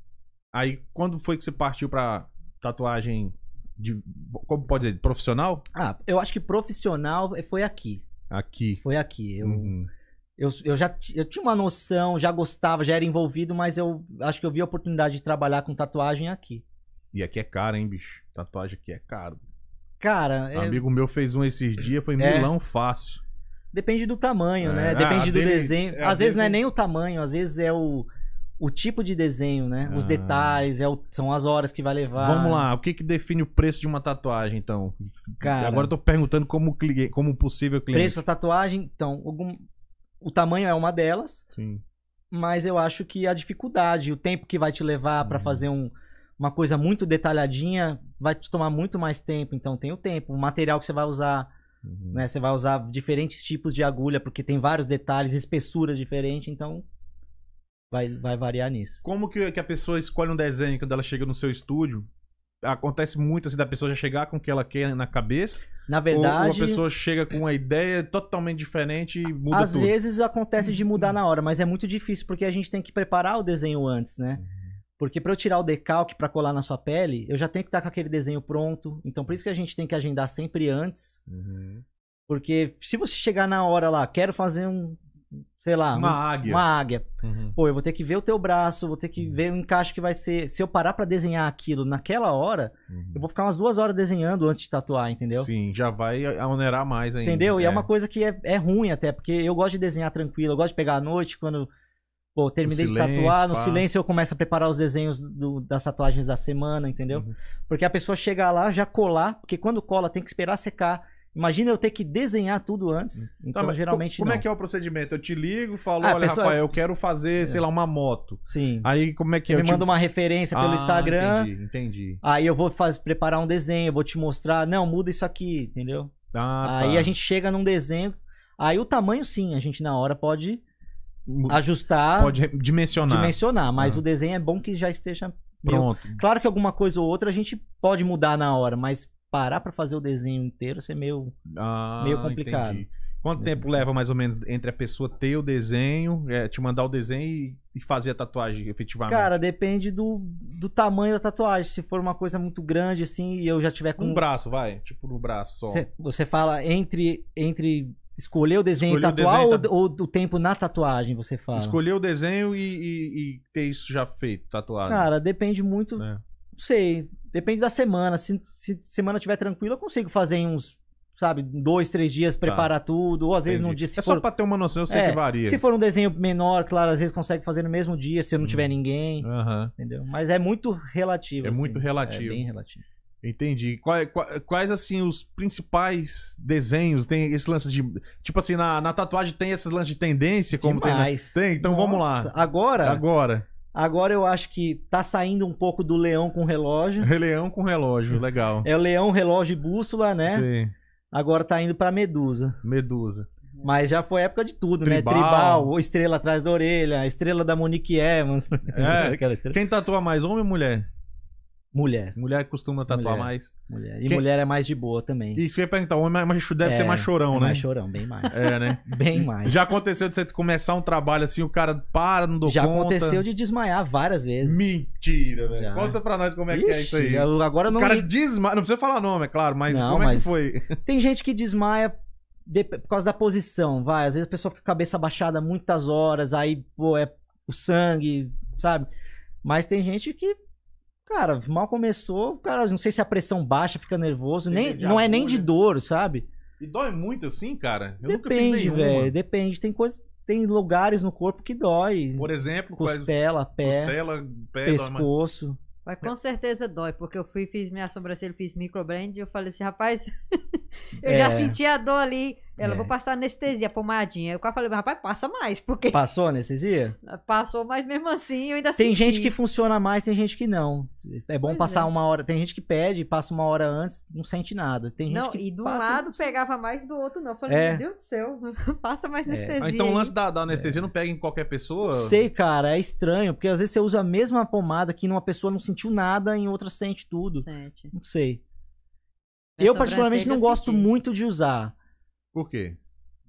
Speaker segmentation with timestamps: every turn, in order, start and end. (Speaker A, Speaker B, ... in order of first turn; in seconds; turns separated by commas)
Speaker A: 0.5-5.6, Speaker B: 5.7-8.0, Speaker A: 8.3-8.8, Speaker B: 8.8-9.7, Speaker A: 9.4-9.9, Speaker B: 10.4-16.6, Speaker A: 17.1-19.4, Speaker B: 20.0-20.8, Speaker A: 20.5-23.2, Speaker B: 22.2-22.5, Speaker B: 23.7-28.1, Speaker A: 24.6-26.6, Speaker B: 28.6-32.6, Speaker A: 29.9-30.6, Speaker A: 32.2-38.2, Speaker B: 35.4-35.9, Speaker B: 37.9-39.6, Speaker B: 40.2-41.5, Speaker A: 41.5-41.8, Speaker B: 42.3-51.5, Speaker A: 45.2-45.6, Speaker A: 51.8-52.2, Speaker B: 52.1-56.8, Speaker B: 57.9-59.0, Speaker A: 59.0-62.1, Speaker A: 62.6-69.9, Speaker B: 65.9-66.8, Speaker B: 69.5-74.4, Speaker A: 74.4-74.7, Speaker B: 75.0-81.2, Speaker A: 81.3-81.8, Speaker B: 82.3-85.0, Speaker B: 85.6-95.5, Speaker A: 85.9-86.6, Speaker A: 87.2-87.5, Speaker A: 92.9-93.2, Speaker A: 95.3-97.9, Speaker B: 97.2-101.7, Speaker B: 102.3-114.4, Speaker A: 102.7-103.8, Speaker A: 113.5-119.9, Speaker B: 116.0-116.8, Speaker B: 118.5-118.9, Speaker B: 119.4-121.5, Speaker A: 120.5-122.2, Speaker B: 122.2-130.6, Speaker A: 126.3-127.1, Speaker A: 131.3-131.6, Speaker B: 131.5-132.4, Speaker A: 132.2-134.0, Speaker B: 133.1-141.3, Speaker A: 135.6-136.2, Speaker A: 141.5-149.3, Speaker B: 142.0-142.8, Speaker B: 143.4-143.7, Speaker B: 149.1-154.2, Speaker A: 154.0-155.8, Speaker B: 155.7-161.8, Speaker A: 158.8-159.7, Speaker A: 161.5-165.1, Speaker B: 164.9-166.0, Speaker B: 166.6-174.2, Speaker A: 172.4-172.7, Speaker A: 173.4-175.6, Speaker B: 174.9-179.3, Speaker A: 178.4-178.7, Speaker A: 179.2-179.7, Speaker B: 179.8-182.8, Speaker A: 181.4-182.4, Speaker A: 183.2-193.5, Speaker B: 190.6-193.0, Speaker B: 193.7-197.1, Speaker A: 197.0-198.7, Speaker B: 198.6-200.4, Speaker A: 200.2-200.7, Speaker B: 201.1-202.6, Speaker A: 202.6-203.3, Speaker B: 203.6-209.6, Speaker A: 204.8-205.7, Speaker A: 208.7-210.9, Speaker B: 211.7-212.2, Speaker A: 212.2-213.5, Speaker B: 212.9-215.4, Speaker A: 215.3-217.6, Speaker B: 216.6-219.7, Speaker A: 218.3-223.2, Speaker B: 222.4-224.7, Speaker A: 224.4-230.8, Speaker B: 225.5-226.0, Speaker B: 226.5-228.1, Speaker B: 229.7-231.9, Speaker B: 232.5-238.9, Speaker B: 239.4-240.3, Speaker B: 241.1-246.3, Speaker A: 244.5-245.5, Speaker A: 246.6-249.1, Speaker B: 248.0-253.9, Speaker A: 252.2-255.1, Speaker B: 254.6-255.6, Speaker C: 255.8-266.0, Speaker B: 261.0-261.6, Speaker B: 262.6-262.9, Speaker B: 265.9-266.9, Speaker C: 267.0-269.3, Speaker B: 268.8-276.3, Speaker C: 271.4-271.9, Speaker C: 275.1-280.1, Speaker B: 277.5-277.8, Speaker B: 279.3-279.7, Speaker A: 279.6-282.2, Speaker B: 280.5-280.8, Speaker B: 281.9-288.4, Speaker C: 287.4-287.9, Speaker C: 289.6-290.9, Speaker B: 289.6-291.7, Speaker A: 292.3-292.8